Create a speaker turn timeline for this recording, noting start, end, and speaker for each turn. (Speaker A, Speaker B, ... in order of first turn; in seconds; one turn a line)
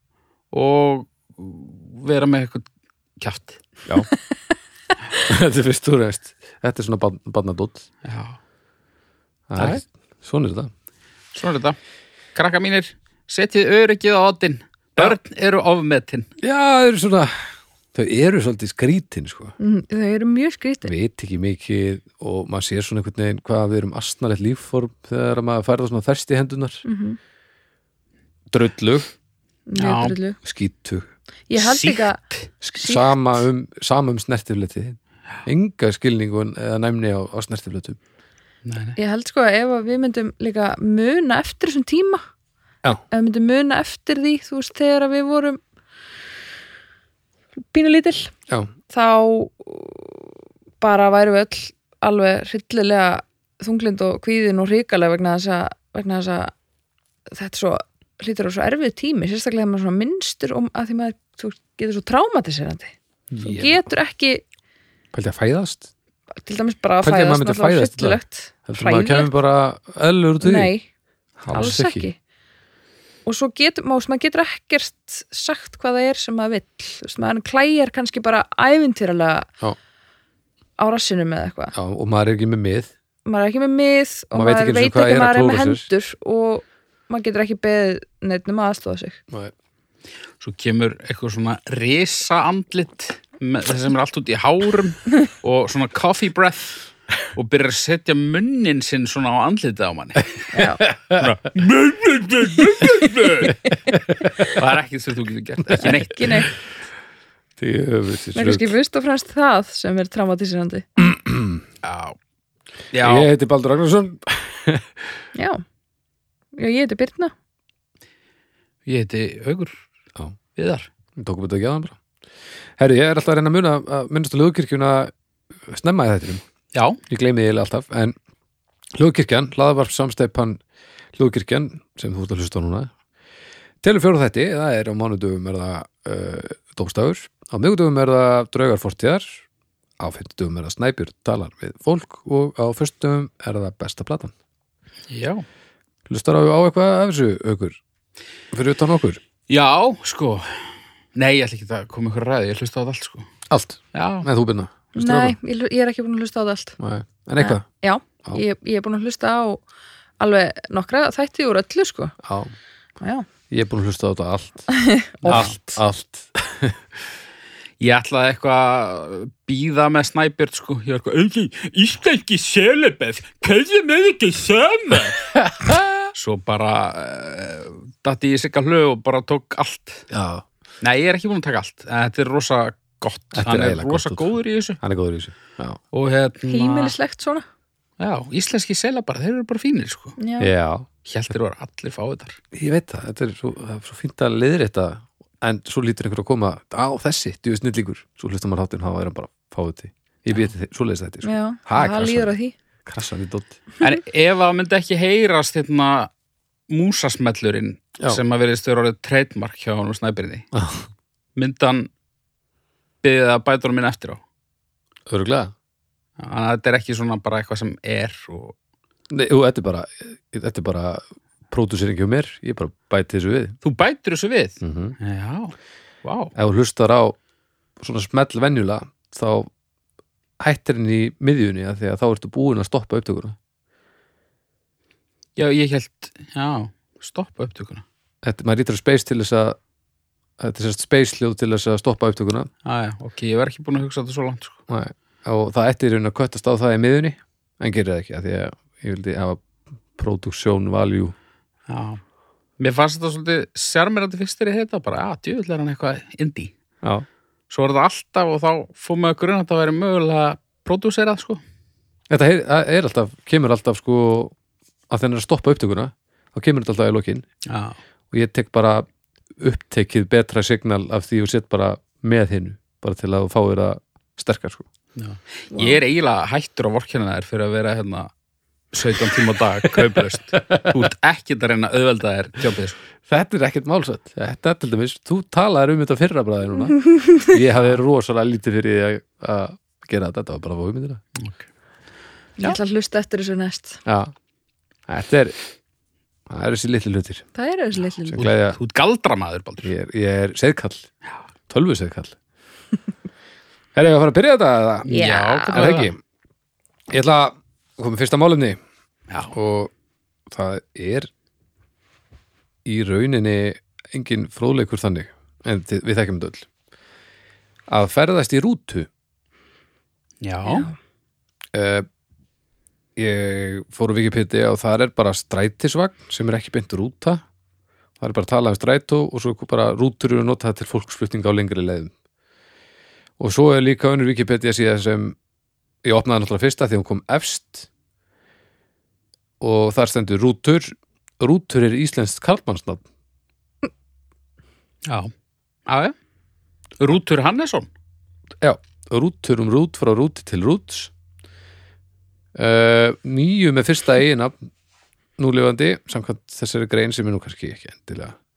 Speaker A: 0.5-2.7
Speaker A: 3.2-3.6
Speaker B: 5.2-7.9
Speaker A: 8.0-8.4
Speaker B: 9.5-10.7
Speaker A: 9.6-9.8
Speaker A: 11.3-11.8
Speaker A: 12.3-16.3
Speaker B: 16.4-19.6
Speaker C: 19.6-20.9
Speaker B: 20.8-26.8
Speaker C: 26.8-27.2
Speaker B: 28.5-29.1
Speaker C: 29.7-30.4
Speaker A: 29.8-30.2
Speaker B: 30.4-31.1
Speaker C: 31.5-32.2
Speaker A: 31.5-32.5
Speaker B: 32.6-38.0
Speaker C: 32.8-33.2
Speaker A: 38.6-39.0
Speaker C: 39.0-42.2
Speaker C: 43.1-45.6
Speaker C: 47.7-48.3
Speaker C: 48.9-56.5
Speaker C: 57.3-64.4
Speaker B: 63.3-63.8
Speaker B: 65.1-65.9
Speaker C: 66.4-69.3
Speaker B: 67.0-70.7
Speaker C: 70.4-70.8
Speaker B: 71.4-72.0
Speaker C: 71.5-72.2
Speaker C: 73.2-79.5
Speaker C: 80.8-81.7
Speaker B: 81.7-82.9
Speaker C: 83.3-89.2
Speaker B: 84.3-85.9
Speaker A: 90.4-100.4
Speaker C: 100.5-100.8
Speaker B: 100.8-101.3
Speaker A: 101.2-103.5
Speaker B: 103.5-104.5
Speaker A: 104.5-106.4
Speaker C: 105.8-106.5
Speaker B: 107.6-108.7
Speaker C: 108.3-110.8
Speaker B: 111.0-111.6
Speaker A: 111.8-112.2
Speaker A: 112.9-113.3
Speaker B: 113.0-114.9
Speaker C: 115.3-115.6
Speaker C: 116.6-117.3
Speaker A: 118.8-119.8
Speaker A: 120.5-120.9
Speaker B: 121.2-122.0
Speaker B: 122.8-125.1
Speaker B: 125.7-126.4
Speaker A: 126.7-127.0
Speaker B: 127.1-128.2
Speaker B: 128.9-130.6
Speaker B: 131.2-132.9
Speaker B: 133.8-139.4
Speaker B: 140.0-144.3
Speaker A: 145.1-145.4
Speaker B: 146.1-147.8
Speaker B: 148.5-149.2
Speaker A: 149.5-153.3
Speaker B: 153.5-155.3
Speaker A: 153.9-154.3
Speaker C: 154.9-156.8
Speaker B: 156.8-157.7
Speaker C: 157.4-159.6
Speaker C: 160.2-162.2
Speaker B: 162.2-162.5
Speaker C: 163.0-163.3
Speaker B: 163.5-164.7
Speaker C: 164.7-165.8
Speaker A: 165.2-165.5
Speaker B: 165.3-166.8
Speaker A: 167.8-175.3
Speaker B: 175.3-176.1
Speaker A: 176.1-180.0
Speaker B: 180.1-180.4
Speaker A: 180.8-184.8
Speaker B: 183.3-185.8
Speaker A: 185.9-186.9
Speaker C: 186.5-187.4
Speaker A: 188.0-190.2
Speaker C: 190.2-190.5
Speaker B: 190.4-190.9
Speaker A: 191.0-192.4
Speaker B: 192.5-202.3
Speaker C: 201.2-202.5
Speaker B: 202.8-203.6
Speaker A: 203.8-206.1
Speaker A: 206.7-210.5
Speaker B: 210.5-210.9
Speaker A: 211.3-211.9
Speaker A: 213.0-214.2
Speaker B: 215.1-215.5
Speaker A: 216.2-218.5
Speaker B: 219.1-223.6
Speaker A: 223.6-226.3
Speaker B: 224.6-224.9
Speaker B: 226.3-227.2
Speaker B: 227.8-229.5
Speaker B: 230.4-233.4
Speaker A: 235.3-237.8
Speaker B: 238.2-239.6
Speaker B: 240.4-242.5
Speaker A: 242.7-244.6
Speaker B: 244.7-249.4
Speaker B: 250.0-251.2
Speaker A: 251.7-252.0
Speaker A: 252.6-256.5
Speaker A: 257.5-261.4
Speaker B: 262.1-264.3
Speaker B: 264.9-267.2
Speaker A: 267.5-267.8
Speaker B: 268.1-268.9
Speaker B: 269.4-274.7
Speaker A: 275.0-278.1
Speaker C: 275.5-275.8
Speaker A: 278.7-282.8
Speaker B: 279.2-279.8
Speaker B: 280.3-280.8
Speaker B: 283.1-291.0
Speaker C: 286.9-287.3
Speaker A: 291.2-291.4
Speaker C: 292.4-293.8
Speaker B: 293.9-294.1
Speaker B: 294.9-295.4
Speaker B: 296.3-297.2
Speaker C: 297.4-298.2
Speaker B: 298.0-298.6
Speaker A: 298.2-299.7
Speaker B: 299.6-300.9
Speaker B: 301.5-302.2
Speaker B: 303.8-305.0
Speaker C: 304.9-305.7
Speaker A: 304.9-305.9
Speaker B: 305.5-306.0
Speaker B: 306.9-308.6
Speaker B: 309.3-309.7
Speaker B: 310.3-311.1
Speaker B: 312.6-316.5
Speaker B: 317.7-318.9
Speaker A: 320.2-320.7
Speaker C: 320.4-320.8
Speaker B: 321.5-321.9
Speaker B: 323.0-327.2
Speaker B: 328.0-331.9
Speaker B: 333.2-335.1
Speaker B: 335.8-337.7
Speaker B: 339.4-342.8
Speaker A: 344.8-345.1
Speaker A: 345.7-345.9
Speaker A: 346.8-347.7
Speaker B: 348.4-350.9
Speaker B: 352.3-354.4
Speaker B: 355.2-358.1